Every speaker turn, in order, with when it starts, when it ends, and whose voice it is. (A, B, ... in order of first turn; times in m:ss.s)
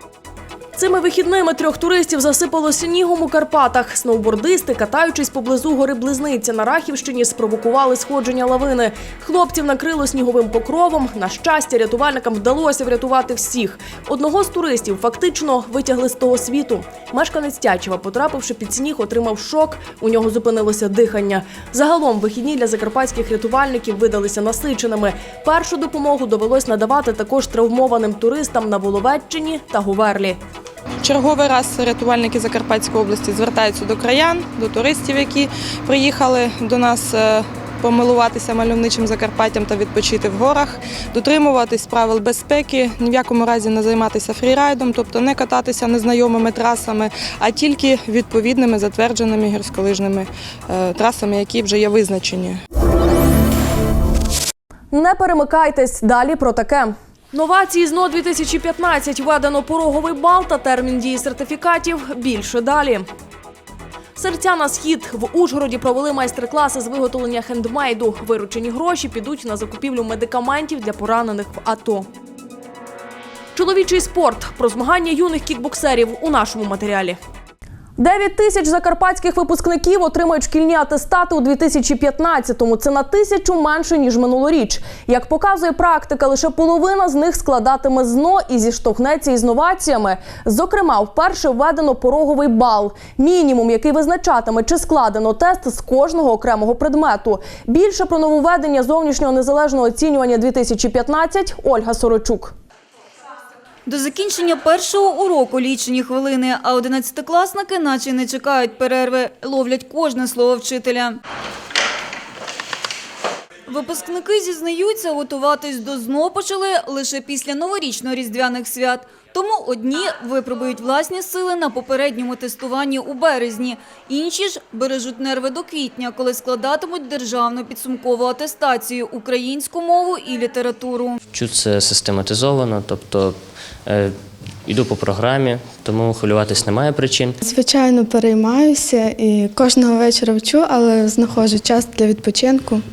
0:00.8-0:30.4 A
0:31.0-0:52.6 B
0:54.9-1:03.1 A
1:04.2-1:12.1 A
1:13.5-1:17.2 A
1:18.0-1:42.5 A
1:43.8-1:51.2 C
1:53.7-2:11.2 C
2:11.3-2:17.4 D
2:17.4-2:22.8 E